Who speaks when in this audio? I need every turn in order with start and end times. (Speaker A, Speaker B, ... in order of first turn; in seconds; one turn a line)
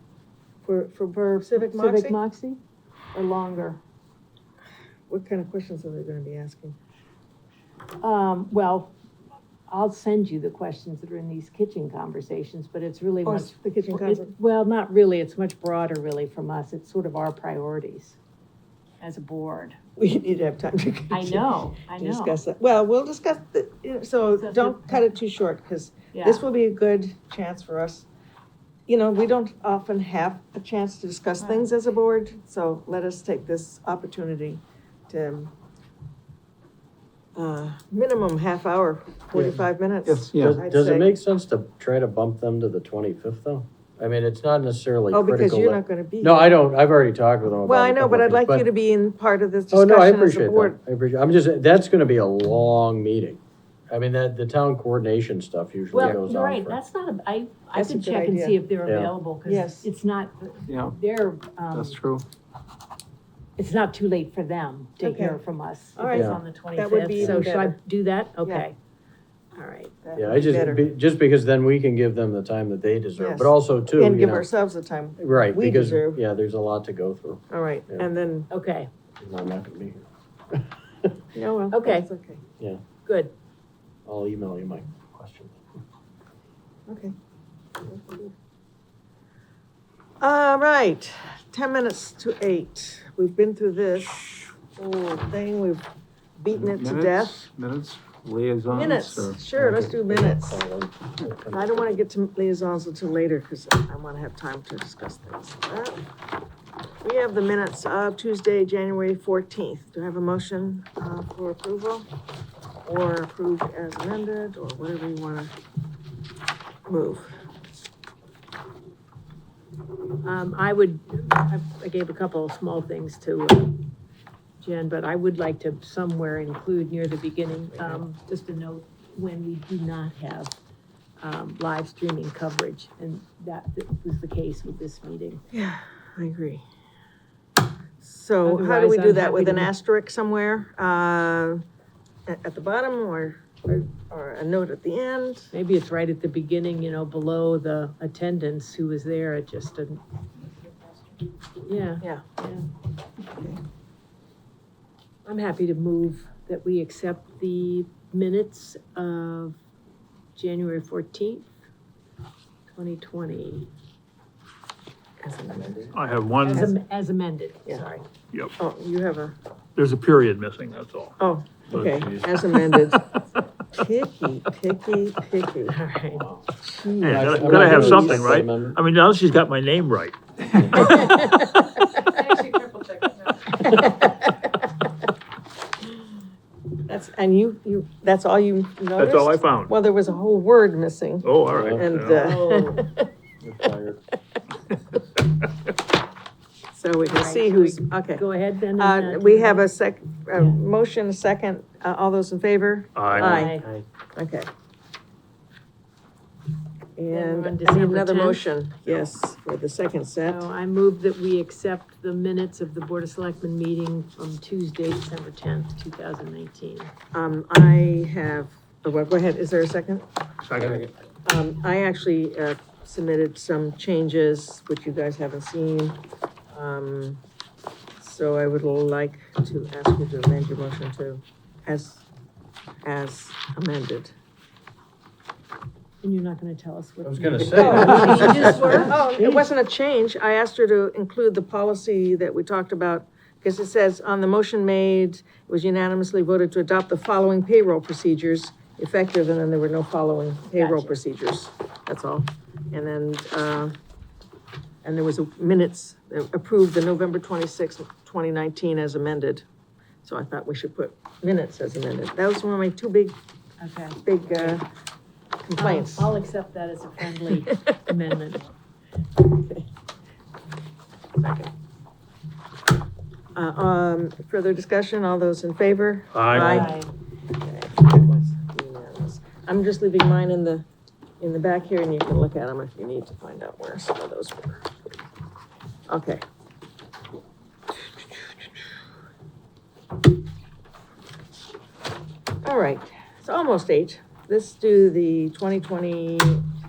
Speaker A: 0.7-2.6
Speaker B: 1.4-2.2
Speaker A: 3.1-3.8
Speaker B: 5.1-6.8
Speaker A: 8.0-8.9
Speaker A: 9.7-18.2
Speaker B: 13.2-14.3
Speaker A: 19.0-19.8
Speaker B: 20.0-28.1
Speaker A: 21.1-22.4
Speaker A: 24.3-25.1
Speaker A: 26.1-26.4
Speaker B: 28.9-35.5
Speaker A: 31.4-31.7
Speaker B: 37.3-41.1
Speaker C: 40.0-40.6
Speaker D: 40.4-48.7
Speaker B: 45.1-46.5
Speaker B: 47.6-50.8
Speaker D: 49.7-56.8
Speaker A: 55.9-62.0
Speaker B: 57.7-58.6
Speaker D: 58.8-59.1
Speaker B: 59.4-59.9
Speaker C: 60.7-60.9
Speaker C: 61.7-62.2
Speaker A: 63.6-68.8
Speaker B: 65.0-65.4
Speaker B: 66.0-67.7
Speaker D: 66.1-66.4
Speaker D: 67.2-67.5
Speaker B: 68.4-68.7
Speaker A: 69.5-69.9
Speaker B: 70.0-70.9
Speaker D: 70.2-74.5
Speaker B: 73.2-76.2
Speaker D: 75.2-78.1
Speaker B: 77.5-78.5
Speaker A: 78.5-78.9
Speaker D: 79.2-81.2
Speaker B: 81.3-82.4
Speaker A: 81.7-82.1
Speaker A: 83.0-83.3
Speaker D: 84.0-85.6
Speaker B: 86.9-87.1
Speaker B: 87.8-88.3
Speaker B: 90.2-95.8
Speaker B: 96.4-97.4
Speaker C: 96.5-99.5
Speaker B: 98.7-100.6
Speaker D: 99.5-102.0
Speaker B: 101.5-106.0
Speaker B: 107.0-112.1
Speaker B: 112.8-115.5
Speaker B: 116.9-117.3
Speaker A: 120.2-123.9
Speaker A: 124.6-130.6
Speaker B: 127.7-128.0
Speaker A: 131.2-135.4
Speaker B: 135.5-136.6
Speaker B: 138.0-141.6
Speaker A: 138.4-139.7
Speaker B: 142.3-145.5
Speaker A: 145.5-150.0
Speaker A: 151.6-152.7
Speaker B: 153.3-153.6
Speaker A: 155.2-159.6
Speaker A: 160.3-161.5
Speaker A: 162.7-163.7
Speaker B: 165.2-165.9
Speaker E: 165.9-166.7
Speaker A: 166.4-168.0
Speaker B: 168.6-169.3
Speaker E: 169.8-171.2
Speaker B: 171.2-173.0
Speaker D: 171.7-172.3
Speaker B: 173.7-175.8
Speaker A: 175.7-176.3
Speaker D: 176.1-178.8
Speaker E: 177.0-181.2
Speaker A: 180.7-182.4
Speaker B: 186.9-193.1
Speaker E: 189.0-189.7
Speaker E: 191.2-192.3
Speaker D: 191.4-192.1
Speaker A: 192.1-192.8
Speaker D: 193.4-194.0
Speaker B: 196.7-203.6
Speaker A: 197.0-199.7
Speaker A: 200.3-200.6
Speaker E: 202.9-203.3
Speaker D: 203.2-203.8
Speaker A: 203.2-203.7
Speaker B: 204.2-204.5
Speaker B: 207.0-210.5
Speaker A: 207.1-208.4
Speaker A: 210.2-216.9
Speaker B: 217.1-220.0
Speaker E: 220.5-220.8
Speaker B: 221.2-226.0
Speaker B: 226.5-227.2
Speaker B: 228.0-232.1
Speaker B: 232.8-234.2
Speaker A: 236.0-239.4
Speaker D: 237.0-238.8
Speaker B: 237.6-253.8
Speaker A: 250.5-251.0
Speaker B: 254.8-259.4
Speaker B: 260.0-263.2
Speaker A: 263.6-264.6
Speaker B: 264.0-264.6
Speaker B: 265.4-266.1
Speaker A: 265.6-268.4
Speaker B: 269.2-269.7
Speaker B: 271.2-271.5
Speaker B: 273.3-276.7
Speaker E: 276.1-276.7
Speaker A: 276.3-276.9
Speaker B: 277.4-280.6
Speaker B: 281.2-284.7
Speaker B: 285.9-286.2
Speaker B: 292.4-296.4